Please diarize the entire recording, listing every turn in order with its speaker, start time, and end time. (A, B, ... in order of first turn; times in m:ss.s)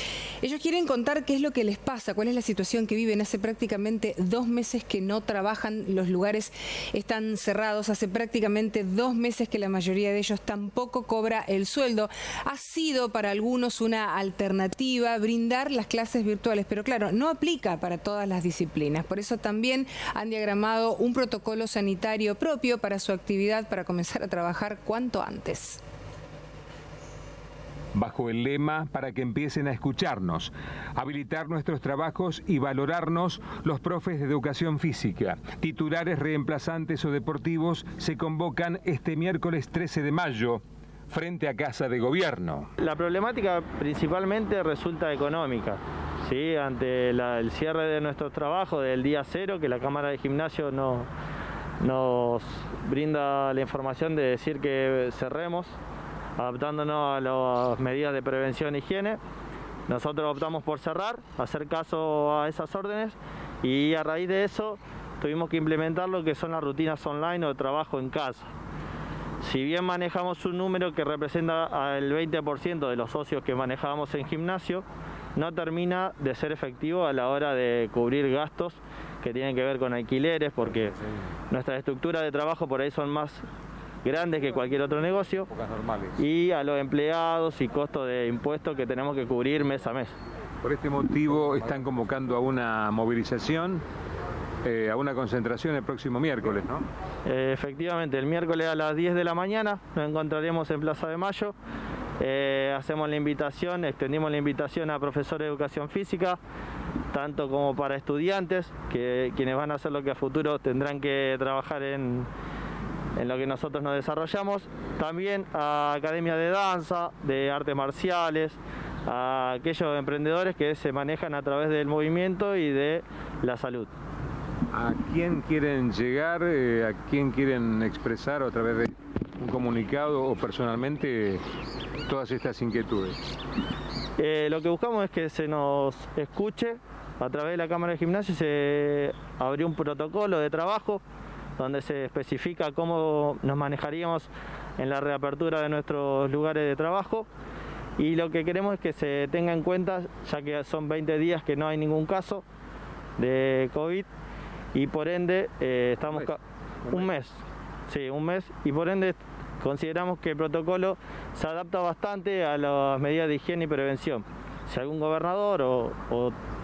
0:00.4-0:25.8 A
0:27.9-0:42.7 B
0:42.8-0:51.1 C
0:51.8-0:55.7 C
0:56.4-0:59.2 C
0:59.9-1:08.5 C
1:09.4-1:21.0 C
1:21.5-1:23.4 C
1:24.0-1:25.5 C
1:25.7-1:26.1 B
1:26.2-1:30.1 C
1:30.6-1:33.8 B
1:34.6-1:36.8 B
1:37.2-1:41.5 C
1:42.2-1:46.4 C
1:47.1-1:52.3 C
1:53.2-2:03.9 C
2:04.7-2:11.4 B
2:12.1-2:13.2 B
2:14.2-2:21.0 C
2:21.6-2:27.3 C
2:28.0-2:32.4 C
2:33.2-2:34.1 C
2:34.7-2:46.3 C